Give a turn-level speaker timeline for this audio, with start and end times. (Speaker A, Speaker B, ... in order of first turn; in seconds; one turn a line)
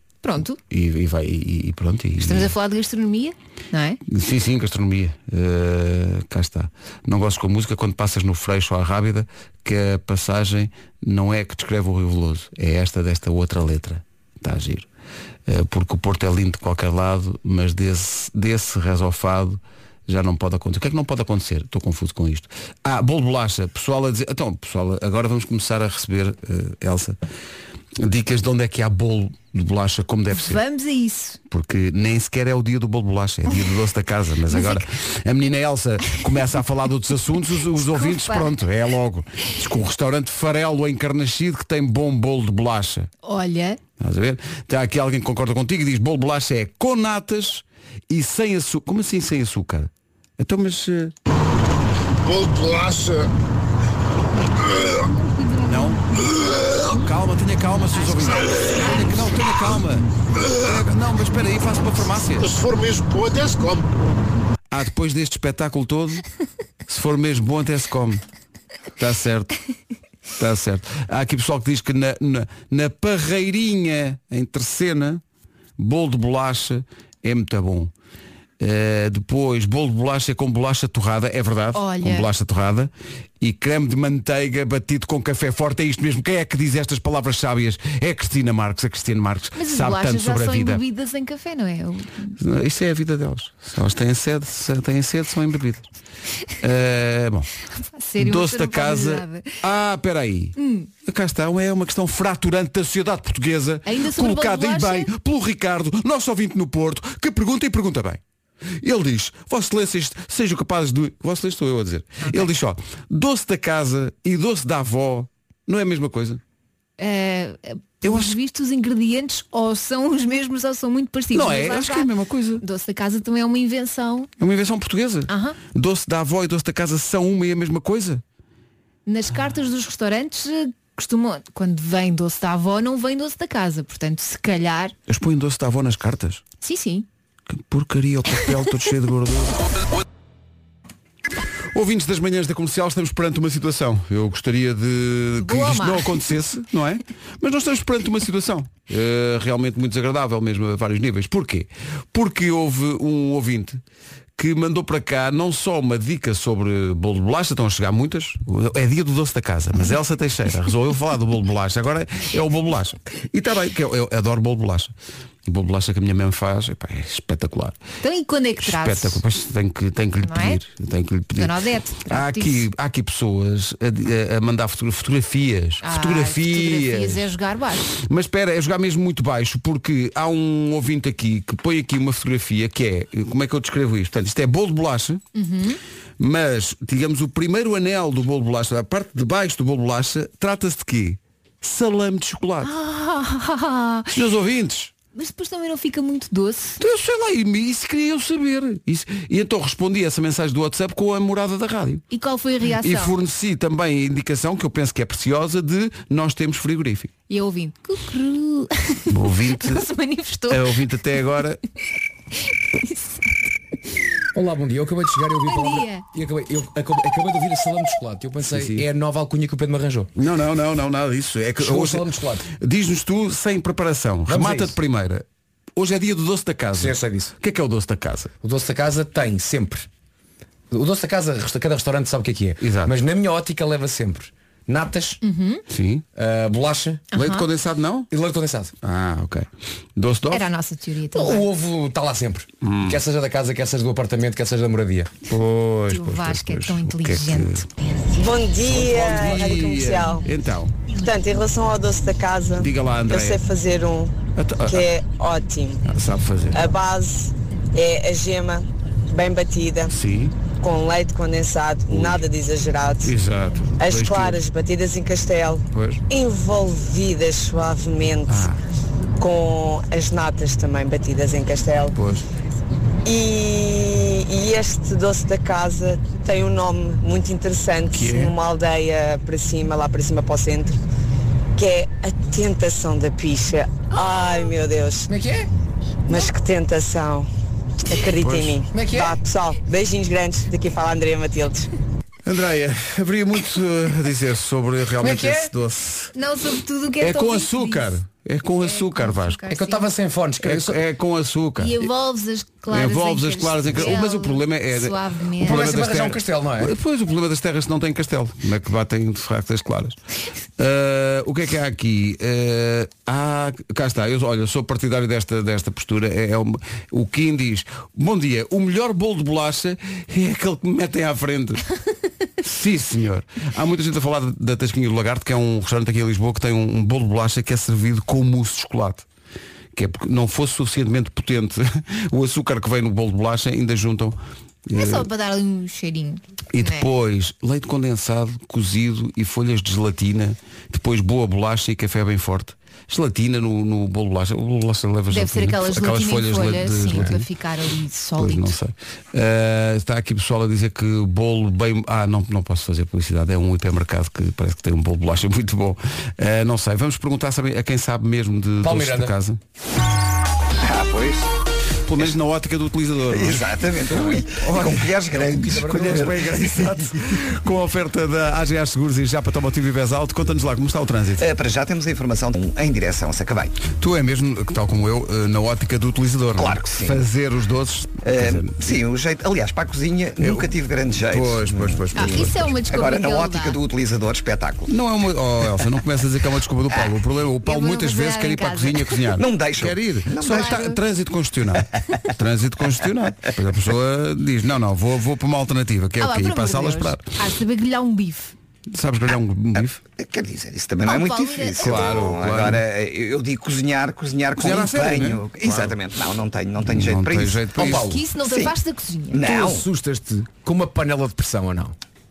Speaker A: 0.2-0.6
Speaker B: 0.7-2.5
Speaker A: 2.2-4.0
Speaker B: 4.1-14.9
Speaker B: 15.5-27.2
Speaker B: 28.0-30.6
Speaker A: 30.3-31.4
Speaker B: 31.5-43.1
Speaker A: 34.5-34.8
Speaker A: 37.7-38.5
Speaker A: 43.2-43.8
Speaker B: 44.0-51.1
Speaker C: 52.2-53.3
Speaker A: 55.1-57.0
Speaker B: 55.6-56.0
Speaker B: 56.8-62.6
Speaker A: 58.0-59.5
Speaker C: 62.4-63.9
Speaker B: 64.7-66.2
Speaker B: 66.9-68.2
Speaker B: 69.0-69.6
Speaker B: 70.4-75.2
Speaker B: 75.8-77.9
Speaker B: 78.6-90.8
Speaker A: 81.7-82.3
Speaker A: 89.6-92.3
Speaker B: 92.4-95.8
Speaker B: 96.6-97.5
Speaker A: 97.9-99.6
Speaker B: 98.2-108.2
Speaker A: 100.6-100.9
Speaker A: 103.9-105.1
Speaker B: 108.8-116.4
Speaker A: 117.0-122.1
Speaker B: 118.0-118.3
Speaker B: 121.3-122.6
Speaker A: 122.6-124.3
Speaker B: 124.4-128.2
Speaker A: 125.3-125.6
Speaker A: 129.1-134.9
Speaker B: 135.1-136.4
Speaker A: 136.6-137.1
Speaker B: 137.5-139.6
Speaker B: 141.7-153.8
Speaker A: 145.4-146.2
Speaker B: 154.4-164.9
Speaker B: 165.5-167.8
Speaker A: 168.0-169.2
Speaker B: 168.6-171.5
Speaker A: 170.2-170.6
Speaker A: 171.4-172.7
Speaker B: 172.1-177.3
Speaker A: 175.8-178.0
Speaker B: 178.0-185.2
Speaker A: 185.3-185.8
Speaker B: 186.2-192.7
Speaker A: 192.6-194.1
Speaker B: 194.1-194.9
Speaker A: 195.2-196.8
Speaker B: 196.8-202.0
Speaker A: 202.1-203.1
Speaker B: 202.8-207.1
Speaker A: 207.3-210.8
Speaker B: 209.1-209.9
Speaker B: 210.5-211.6
Speaker A: 212.4-213.3
Speaker D: 214.3-220.1
Speaker A: 215.5-216.1
Speaker B: 218.5-218.9
Speaker B: 220.2-225.2
Speaker D: 221.6-222.5
Speaker D: 224.3-224.8
Speaker B: 225.8-228.3
Speaker D: 226.8-227.3
Speaker D: 228.4-229.9
Speaker D: 230.7-235.2
Speaker B: 232.6-233.0
Speaker A: 235.2-235.6
Speaker B: 235.7-236.1
Speaker D: 236.2-237.1
Speaker A: 237.1-237.5
Speaker B: 237.1-238.1
Speaker D: 238.1-238.7
Speaker B: 238.8-240.4
Speaker A: 240.3-241.5
Speaker D: 241.1-245.1
Speaker B: 242.6-243.0
Speaker B: 245.3-247.6
Speaker A: 245.9-247.7
Speaker E: 248.1-250.2
Speaker B: 248.7-250.7
Speaker E: 251.0-254.2
Speaker B: 252.6-253.4
Speaker B: 254.4-254.9
Speaker E: 254.7-255.8
Speaker B: 255.9-256.7
Speaker E: 256.5-259.9
Speaker B: 259.9-260.4
Speaker E: 260.6-263.1
Speaker B: 261.9-262.2
Speaker B: 263.0-264.4
Speaker E: 263.8-268.5
Speaker B: 265.7-266.0
Speaker B: 268.3-268.6
Speaker E: 269.2-272.0
Speaker B: 271.9-272.3
Speaker E: 273.1-280.8
Speaker B: 277.9-278.4
Speaker E: 281.6-285.1
Speaker D: 285.1-285.5
Speaker E: 286.1-287.3
Speaker E: 287.9-291.7
Speaker B: 288.2-288.6
Speaker D: 288.7-289.2
Speaker B: 292.3-296.1
Speaker D: 295.0-295.5
Speaker A: 296.1-298.0
Speaker B: 297.0-299.4
Speaker A: 298.6-299.9
Speaker D: 299.5-300.8
Speaker B: 300.4-301.9
Speaker A: 301.6-305.7
Speaker B: 302.7-310.0
Speaker D: 305.4-306.7
Speaker B: 310.6-321.6
Speaker B: 322.4-329.1
Speaker B: 329.8-334.2
Speaker B: 334.7-335.1
Speaker A: 334.8-336.9
Speaker B: 336.5-347.2
Speaker A: 345.1-348.6
Speaker B: 348.2-359.4
Speaker D: 358.6-359.1
Speaker F: 360.6-361.3
Speaker B: 361.9-371.3
Speaker F: 363.1-366.1
Speaker D: 363.9-364.2
Speaker D: 365.2-366.5
Speaker F: 371.2-373.6
Speaker B: 373.8-378.6
Speaker F: 376.4-377.0
Speaker F: 378.0-384.7
Speaker B: 380.2-380.5
Speaker B: 381.1-382.4
Speaker A: 381.9-383.6
Speaker B: 384.7-397.0
Speaker A: 387.4-389.1
Speaker F: 389.2-390.7
Speaker A: 390.2-390.8
Speaker A: 396.0-398.3
Speaker B: 398.7-399.8
Speaker F: 399.6-407.5
Speaker A: 400.8-402.1
Speaker B: 401.6-402.6
Speaker B: 404.4-405.8
Speaker B: 406.7-407.9
Speaker D: 407.6-408.1
Speaker A: 407.7-409.2
Speaker F: 408.2-408.6
Speaker F: 409.1-409.7
Speaker D: 409.2-411.8